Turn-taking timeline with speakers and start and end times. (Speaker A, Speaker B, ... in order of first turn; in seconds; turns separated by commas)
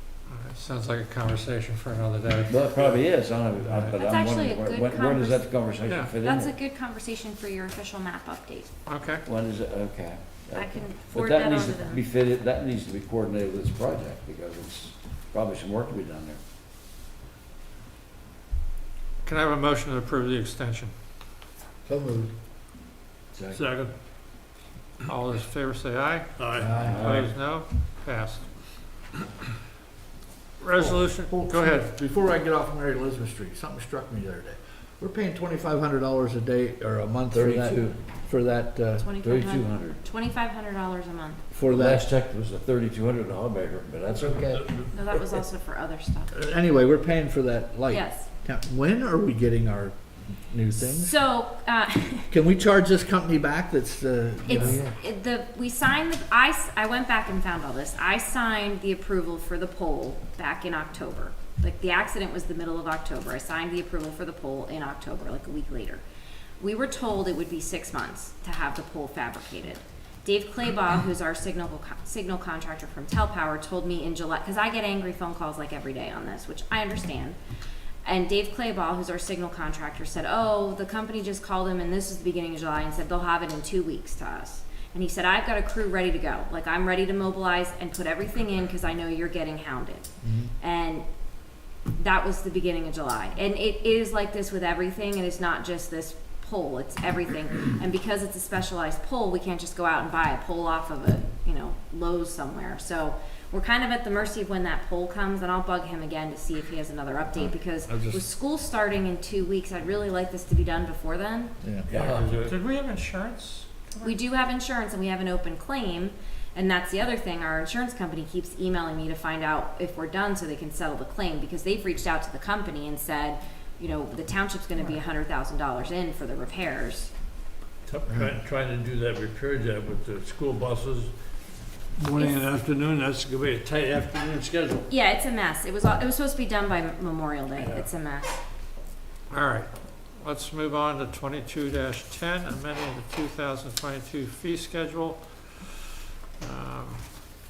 Speaker A: 0.3-3.0, Speaker B: 2.5-6.5, Speaker A: 3.7-4.0, Speaker C: 4.0-5.5, Speaker A: 5.9-6.1, Speaker C: 6.2-8.7, Speaker A: 8.9-9.2, Speaker B: 9.2-16.4, Speaker C: 10.5-12.0, Speaker A: 19.2-20.9, Speaker D: 21.8-22.3, Speaker B: 23.3-23.6, Speaker E: 23.5-23.9, Speaker A: 25.1-28.4, Speaker E: 26.4-27.3, Speaker D: 26.6-27.1, Speaker B: 26.8-27.2, Speaker A: 30.6-31.8, Speaker D: 30.8-39.1, Speaker B: 37.3-38.0, Speaker C: 39.0-41.4, Speaker B: 39.2-40.0, Speaker D: 41.5-42.1, Speaker B: 41.6-44.9, Speaker C: 44.9-46.3, Speaker D: 46.3-51.1, Speaker C: 47.9-48.3, Speaker C: 50.8-52.3, Speaker D: 52.3-54.8, Speaker C: 54.5-66.0, Speaker B: 54.5-54.9, Speaker C: 66.6-77.4, Speaker C: 78.0-90.1, Speaker D: 90.2-90.5, Speaker C: 90.6-91.0, Speaker C: 92.0-111.5, Speaker D: 107.3-108.2, Speaker D: 111.6-111.9, Speaker E: 111.9-112.5, Speaker B: 111.9-112.3, Speaker A: 112.4-114.2, Speaker C: 114.0-127.1, Speaker E: 127.8-131.1, Speaker D: 128.1-128.3, Speaker E: 131.9-134.9, Speaker C: 132.1-132.4, Speaker C: 134.9-138.4, Speaker E: 137.5-137.9, Speaker A: 139.3-145.8, Speaker A: 146.4-147.0